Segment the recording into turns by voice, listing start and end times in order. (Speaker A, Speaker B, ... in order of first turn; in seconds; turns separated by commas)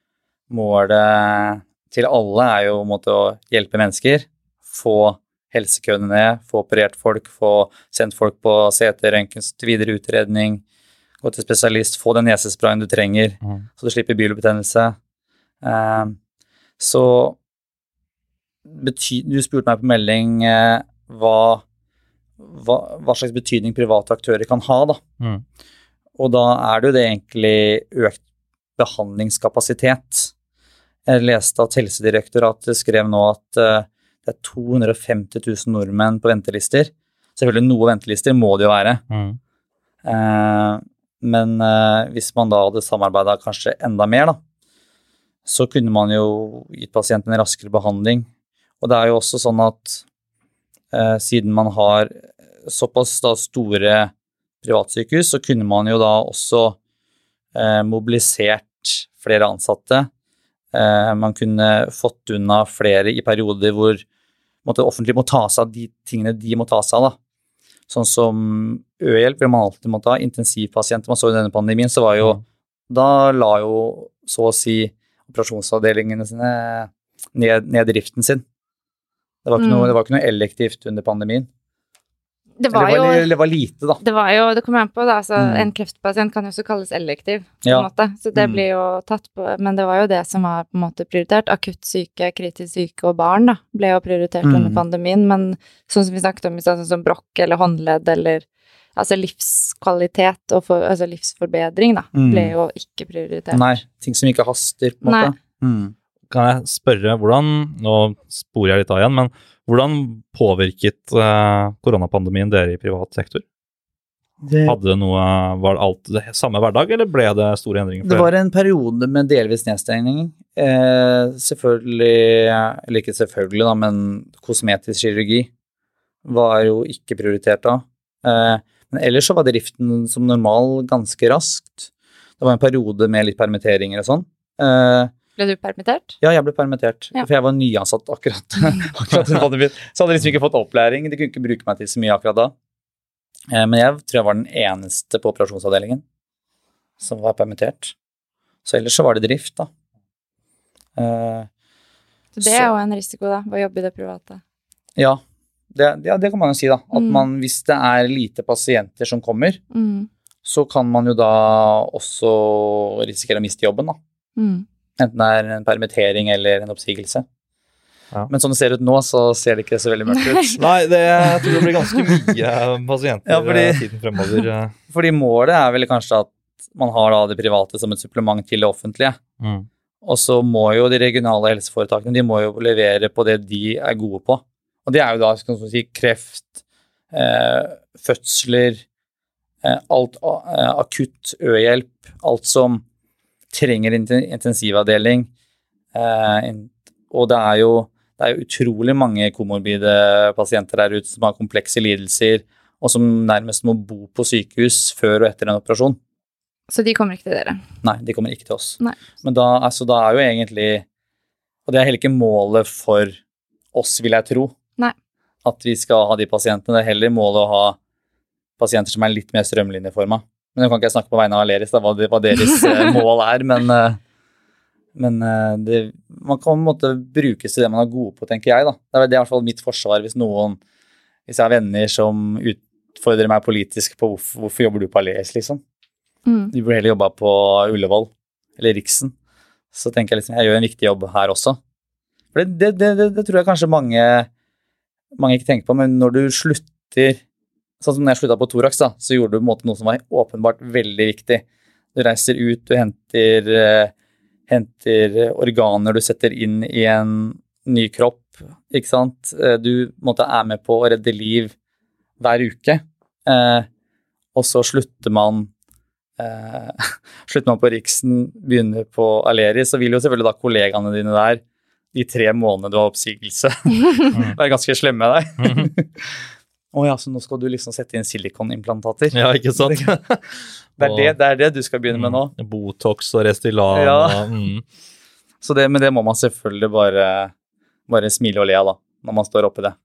Speaker A: 0.5-10.6, Speaker A: 11.2-14.9, Speaker A: 15.6-16.1, Speaker A: 16.8-17.4, Speaker A: 18.6-21.6, Speaker A: 22.4-25.0, Speaker A: 26.2-28.2, Speaker A: 28.8-30.3, Speaker A: 31.1-39.0, Speaker B: 39.1-39.4, Speaker A: 40.0-44.4, Speaker A: 45.5-48.3, Speaker A: 48.8-50.0, Speaker A: 50.9-56.8, Speaker A: 57.5-60.1, Speaker A: 60.7-64.0, Speaker A: 64.6-67.2, Speaker A: 67.9-78.4, Speaker A: 79.4-81.5, Speaker C: 79.6-79.9, Speaker C: 82.6-83.3, Speaker A: 82.7-84.0, Speaker C: 84.0-98.4, Speaker A: 85.4-85.7, Speaker A: 87.6-88.5, Speaker A: 94.4-94.8, Speaker C: 99.0-103.8, Speaker A: 102.1-102.5, Speaker A: 103.5-105.9, Speaker C: 105.0-105.3, Speaker B: 106.3-113.4, Speaker A: 114.4-114.8, Speaker B: 114.6-118.3, Speaker A: 118.0-125.5, Speaker A: 126.2-131.9, Speaker A: 132.4-135.1, Speaker C: 135.4-136.2, Speaker A: 136.2-142.5, Speaker A: 143.5-146.0, Speaker A: 147.0-147.9, Speaker A: 148.6-149.7, Speaker A: 151.0-151.5, Speaker C: 152.3-154.4, Speaker A: 152.4-152.7, Speaker A: 155.7-159.6, Speaker C: 157.0-157.3, Speaker C: 159.7-160.1, Speaker A: 160.4-164.0, Speaker C: 164.4-164.6, Speaker A: 165.0-167.2, Speaker A: 168.3-170.6, Speaker B: 170.6-174.7, Speaker A: 171.2-171.5, Speaker A: 173.3-173.8, Speaker A: 174.9-179.2, Speaker B: 179.4-179.7, Speaker A: 180.0-186.6, Speaker A: 187.1-188.8, Speaker A: 189.6-192.8, Speaker A: 193.5-195.3, Speaker A: 195.9-206.0, Speaker C: 206.7-207.6, Speaker A: 207.8-210.8, Speaker A: 211.7-213.2, Speaker A: 213.7-214.5, Speaker A: 215.4-217.8, Speaker A: 218.6-224.0, Speaker A: 224.9-230.6, Speaker A: 231.3-235.6, Speaker C: 236.2-236.5, Speaker A: 236.5-239.1, Speaker A: 239.7-241.6, Speaker A: 242.3-244.3, Speaker A: 245.2-247.2, Speaker A: 247.8-251.4, Speaker A: 251.9-253.9, Speaker A: 254.5-261.5, Speaker A: 262.2-263.7, Speaker A: 264.3-265.5, Speaker A: 266.2-271.4, Speaker A: 271.9-279.9, Speaker B: 275.4-275.7, Speaker B: 279.1-281.1, Speaker A: 280.8-282.3, Speaker B: 281.9-284.6, Speaker A: 283.7-284.3, Speaker A: 285.4-287.3, Speaker A: 287.9-289.7